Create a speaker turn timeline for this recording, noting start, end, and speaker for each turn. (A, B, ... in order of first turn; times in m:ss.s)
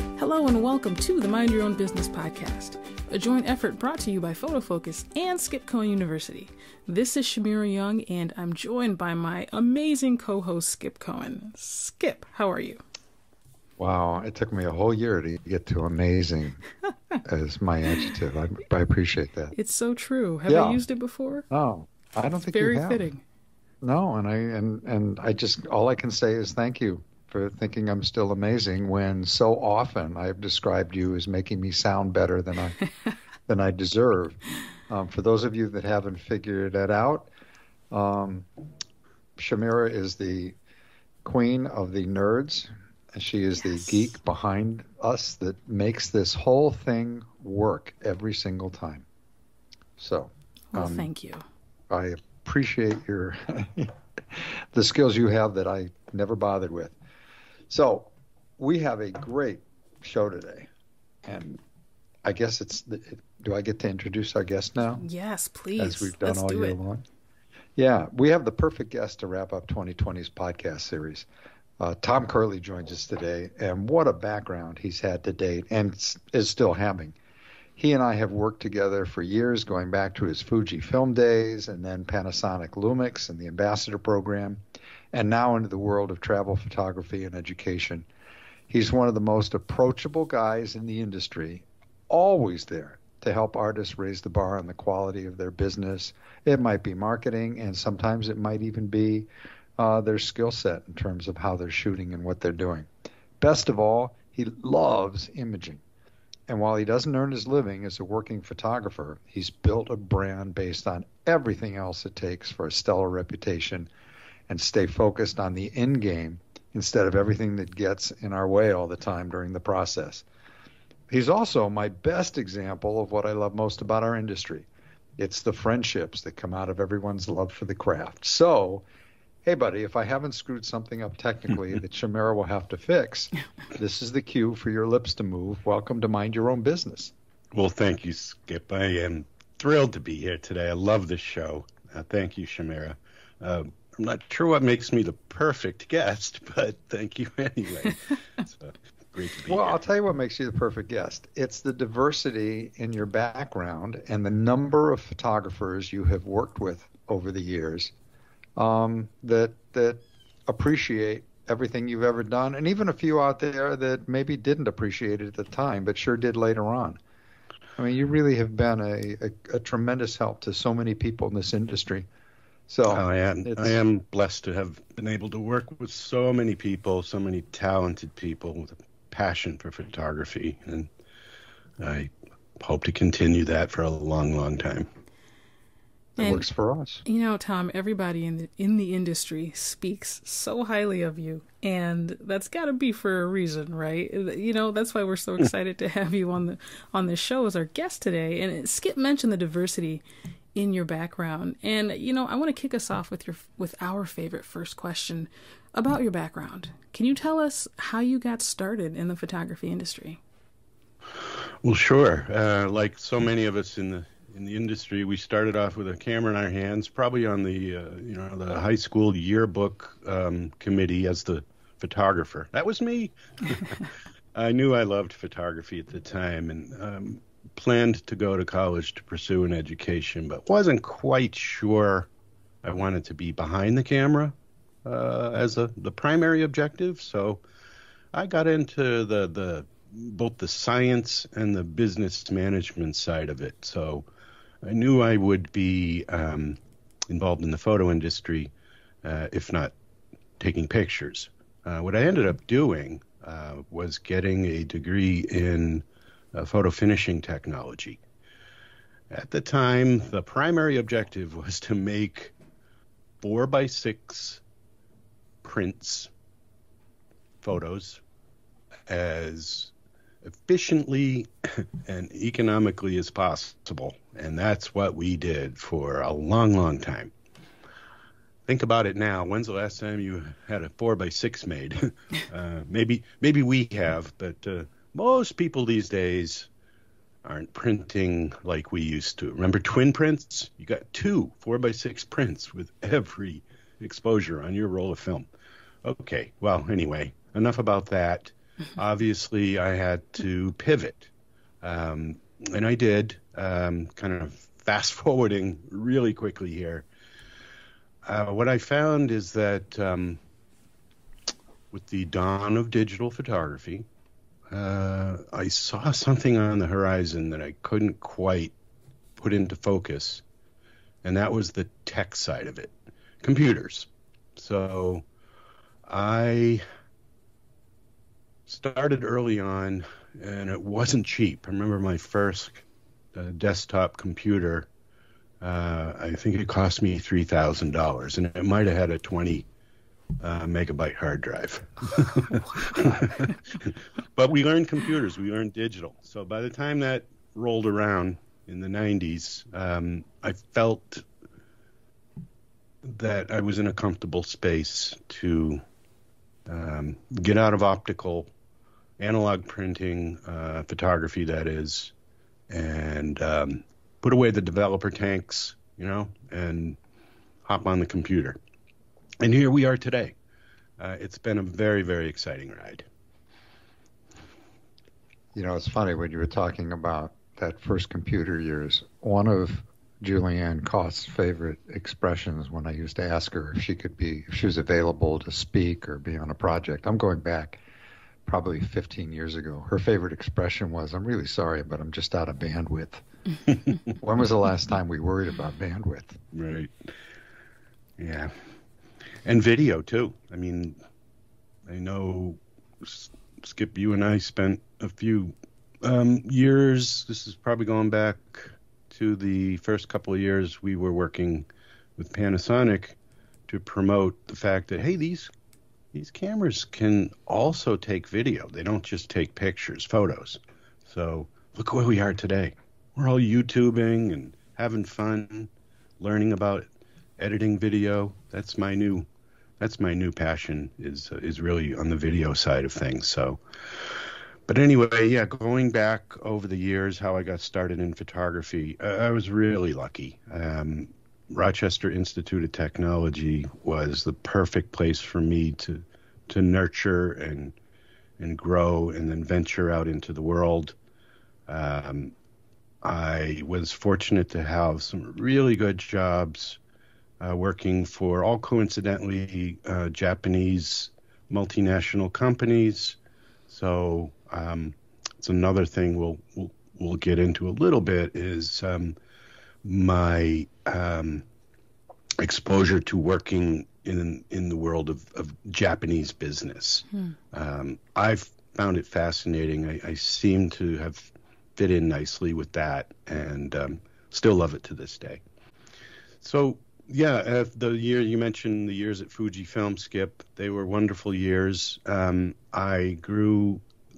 0:00.2-0:12.8 A
0:13.8-0:16.6 B
0:17.2-0:19.5 B
0:19.5-0:21.4 A
0:20.5-0:20.8 B
0:21.5-0:23.0 B
0:22.5-0:23.2 A
0:23.8-0:32.8 B
0:33.5-0:37.3 B
0:37.9-0:38.5 B
0:39.4-0:40.6 B
0:41.2-0:49.0 B
0:50.0-0:51.1 B
0:50.7-0:51.4 A
0:51.9-0:57.0 B
0:57.7-1:00.7 B
1:01.2-1:01.6 B
1:02.2-1:05.0 B
1:05.0-1:06.8 A
1:05.8-1:07.0 B
1:07.8-1:11.2 B
1:11.8-1:17.2 B
1:17.8-1:24.6 B
1:25.1-1:28.0 B
1:28.7-1:39.3 B
1:39.8-1:42.9 B
1:43.4-1:45.8 B
1:46.5-1:53.9 B
1:54.5-2:00.2 B
2:01.1-2:04.7 B
2:05.2-2:08.8 B
2:09.4-2:17.1 B
2:17.5-2:29.8 C
2:29.5-2:37.9 B
2:38.6-2:47.0 B
2:47.8-2:52.0 B
2:52.7-2:53.8 B
2:52.9-3:00.9 C
3:01.8-3:04.9 C
3:06.2-3:06.4 A
3:06.2-3:07.0 B
3:07.0-3:20.0 A
3:20.5-3:30.2 A
3:31.6-3:52.1 C
3:52.6-3:57.4 C
3:58.1-4:04.0 C
4:04.6-4:08.5 C
4:09.0-4:09.7 C
4:10.4-4:18.0 C
4:19.1-4:22.3 C
4:23.2-4:24.4 C
4:25.4-4:26.1 C
4:27.4-4:28.0 C
4:28.9-4:29.7 C
4:30.2-4:37.1 C
4:38.4-4:46.5 C
4:47.2-4:55.3 C
4:55.8-5:01.1 C
5:01.6-5:06.8 C
5:08.0-5:10.2 C
5:11.7-5:13.8 C
5:14.5-5:18.5 C
5:19.2-5:20.2 C
5:21.0-5:25.0 C
5:25.8-5:26.6 C
5:28.5-5:32.6 C
5:33.1-5:34.7 C
5:35.4-5:39.4 C
5:40.2-5:51.0 C
5:52.8-5:55.6 C
5:56.5-5:58.3 C
5:59.0-6:01.9 C
6:02.5-6:06.8 C
6:07.4-6:08.4 C
6:09.2-6:10.1 C
6:10.8-6:12.8 C
6:15.3-6:27.6 B
6:28.2-6:33.0 B
6:33.9-6:36.2 B
6:36.3-6:36.9 C
6:38.0-6:38.3 C
6:39.2-6:40.8 C
6:41.6-6:53.0 C
6:53.5-6:55.3 C
6:55.9-7:09.1 C
7:09.6-7:27.6 C
7:28.2-7:30.8 C
7:31.5-7:32.1 C
7:32.8-7:36.6 C
7:37.2-7:49.0 C
7:49.6-7:51.2 C
7:52.2-8:05.2 C
8:06.2-8:13.6 C